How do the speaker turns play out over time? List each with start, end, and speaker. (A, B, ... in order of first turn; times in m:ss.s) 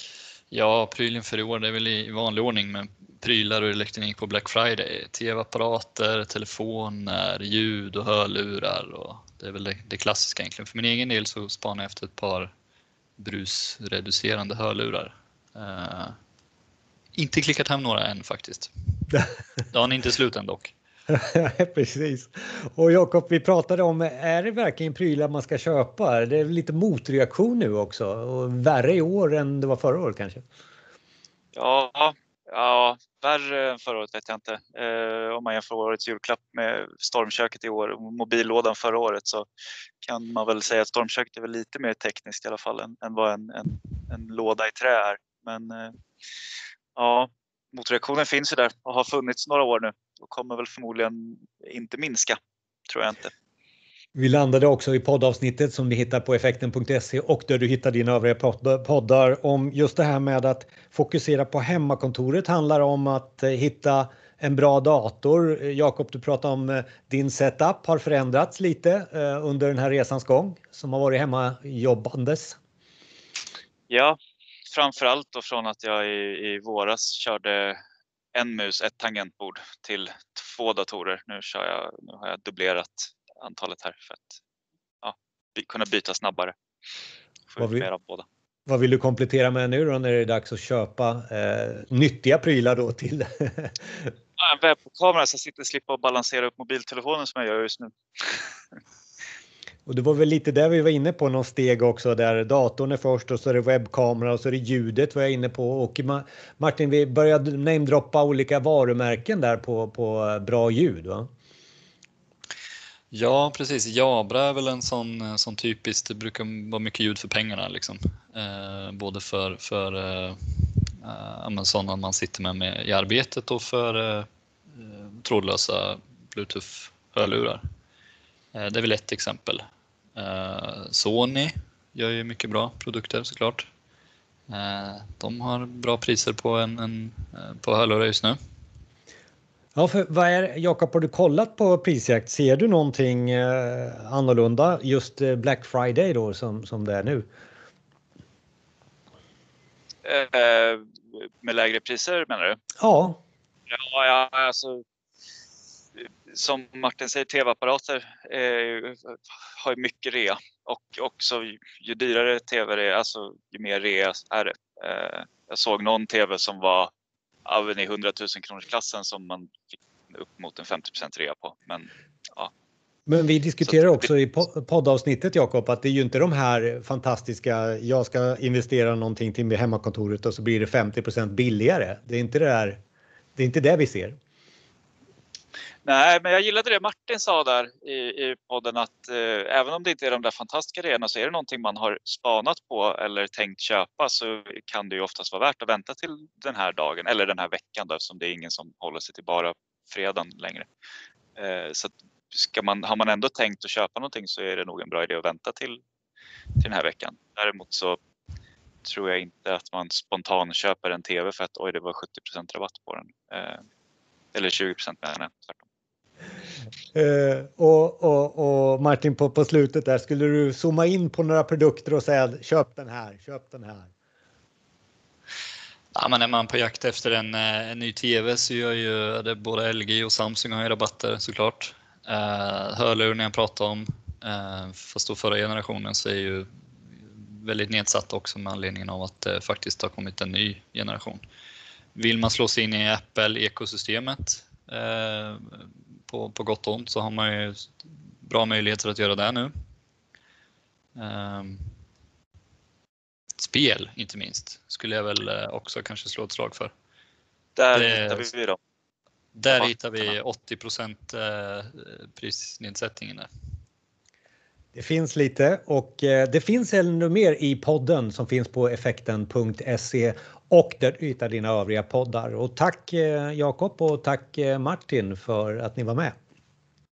0:00.5-0:12.5 A
0:13.2-0:16.1 A
0:17.2-0:18.7 A
0:19.7-0:20.7 A
0:21.1-0:30.4 B
0:31.6-0:39.5 C
0:40.0-0:45.9 C
0:47.0-0:52.4 C
0:52.9-0:53.3 C
0:54.2-1:12.6 B
1:13.9-1:14.2 C
1:14.7-1:17.8 C
1:18.4-1:24.4 C
1:25.0-1:26.6 C
1:27.5-1:28.3 C
1:27.6-1:27.9 B
1:28.7-1:34.1 B
1:34.4-1:38.5 C
1:39.9-1:51.3 B
1:53.1-2:07.6 A
2:08.5-2:09.6 A
2:10.2-2:13.7 A
2:14.5-2:18.4 A
2:19.8-2:27.3 B
2:30.0-2:32.6 C
2:32.8-2:33.2 B
2:33.7-2:34.8 C
2:36.0-2:46.9 C
2:47.5-2:49.6 C
2:50.1-2:52.5 C
2:53.1-3:02.8 B
2:53.6-2:54.1 C
3:03.4-3:04.2 B
3:05.8-3:20.7 C
3:21.4-3:25.8 C
3:26.6-3:28.0 C
3:28.8-3:33.6 C
3:34.3-3:35.6 C
3:36.9-3:43.9 B
3:45.9-4:01.2 A
4:02.0-4:09.5 A
4:11.0-4:11.6 A
4:13.4-4:16.7 A
4:17.6-4:18.6 C
4:17.7-4:18.3 A
4:19.3-4:23.3 A
4:19.5-4:20.1 C
4:24.8-4:36.2 B